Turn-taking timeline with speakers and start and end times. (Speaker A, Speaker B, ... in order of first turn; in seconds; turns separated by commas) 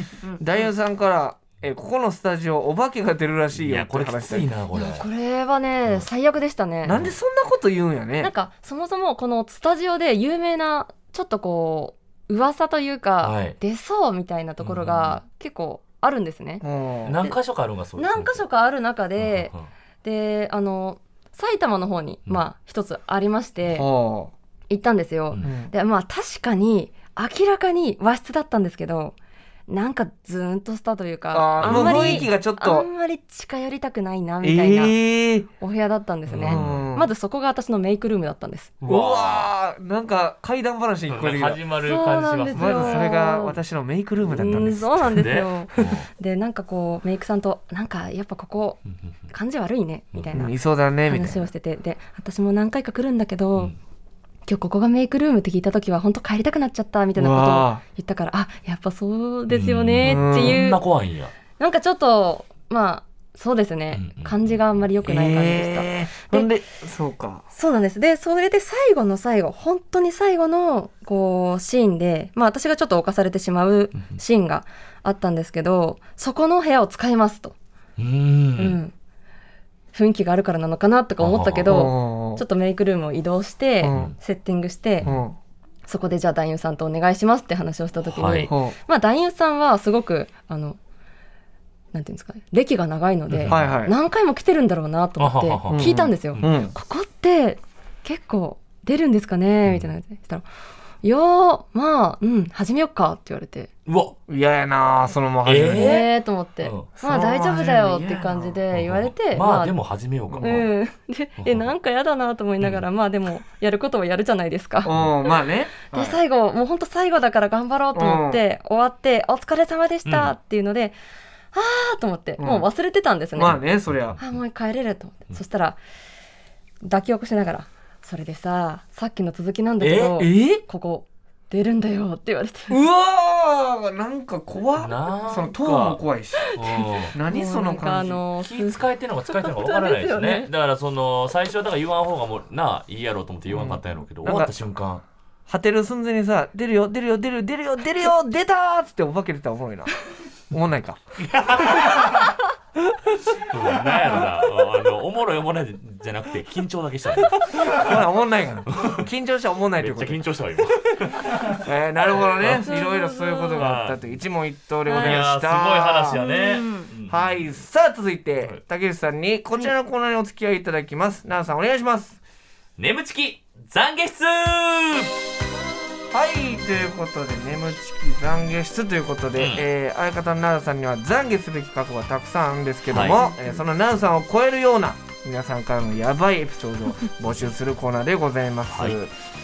Speaker A: 0.4-4.5, Speaker B: 3.5-5.1, Speaker C: 4.7-7.0, Speaker A: 6.8-8.3, Speaker B: 6.9-7.2, Speaker C: 8.2-16.6, Speaker B: 13.2-13.6, Speaker B: 14.6-15.2, Speaker A: 16.6-17.2, Speaker B: 17.0-18.4, Speaker C: 18.0-19.5, Speaker B: 19.2-19.7, Speaker C: 20.0-23.9, Speaker A: 23.7-24.3, Speaker C: 24.7-29.1, Speaker A: 25.4-25.7, Speaker C: 29.7-35.0, Speaker A: 31.3-32.9, Speaker B: 31.6-32.3, Speaker A: 34.4-35.5, Speaker C: 35.6-38.8, Speaker B: 36.3-36.9, Speaker A: 36.4-37.1, Speaker B: 38.8-39.5, Speaker A: 38.8-41.6, Speaker B: 41.1-43.1, Speaker C: 41.8-43.6, Speaker A: 42.5-44.8, Speaker B: 44.3-46.1, Speaker C: 44.3-48.8, Speaker C: 49.3-50.5, Speaker A: 50.3-51.5, Speaker C: 51.1-53.7, Speaker C: 54.5-60.8, Speaker A: 57.2-57.8, Speaker B: 59.5-61.3, Speaker A: 60.0-60.6, Speaker C: 61.6-66.5, Speaker B: 63.9-64.5, Speaker A: 65.0-67.4, Speaker C: 67.5-77.5, Speaker B: 78.0-78.8, Speaker C: 78.6-78.9, Speaker C: 79.9-85.1, Speaker B: 81.2-81.8, Speaker A: 81.7-82.4, Speaker A: 83.8-84.1, Speaker A: 85.0-85.3, Speaker C: 85.9-90.8, Speaker B: 88.0-88.5, Speaker A: 88.5-88.8, Speaker C: 91.9-100.5, Speaker B: 93.3-93.8, Speaker A: 93.5-93.9, Speaker B: 95.2-96.7, Speaker A: 95.7-96.7, Speaker C: 101.0-103.7, Speaker B: 103.8-104.2, Speaker A: 104.3-106.0, Speaker B: 105.5-106.9, Speaker C: 105.8-109.7, Speaker A: 107.0-108.5, Speaker B: 108.7-110.7, Speaker A: 110.3-110.6, Speaker C: 110.4-114.9, Speaker B: 111.4-111.7, Speaker A: 114.8-116.2, Speaker C: 115.9-121.0, Speaker A: 118.0-118.4, Speaker B: 120.0-120.3, Speaker C: 121.5-123.6, Speaker A: 122.4-122.7, Speaker A: 123.3-124.2, Speaker B: 124.0-124.2, Speaker C: 124.2-125.8, Speaker C: 126.8-132.8, Speaker B: 129.8-130.2, Speaker A: 130.2-130.6, Speaker A: 132.7-136.5, Speaker B: 134.8-136.0, Speaker C: 136.4-140.5, Speaker B: 136.6-137.2, Speaker A: 137.1-138.2, Speaker B: 138.4-145.0, Speaker A: 143.5-144.5, Speaker A: 145.5-149.9, Speaker A: 150.5-151.0, Speaker B: 151.2-152.3, Speaker B: 153.3-157.9, Speaker A: 157.6-160.2, Speaker B: 158.7-159.1, Speaker B: 159.8-161.7, Speaker A: 161.2-166.2, Speaker B: 162.2-162.7, Speaker C: 162.6-163.7, Speaker B: 163.6-164.1, Speaker C: 164.9-165.2, Speaker B: 164.9-167.5, Speaker C: 166.2-166.9, Speaker A: 167.1-172.2, Speaker B: 172.8-175.1, Speaker A: 176.1-189.1, Speaker B: 179.4-179.6, Speaker B: 182.9-183.3, Speaker B: 188.7-189.0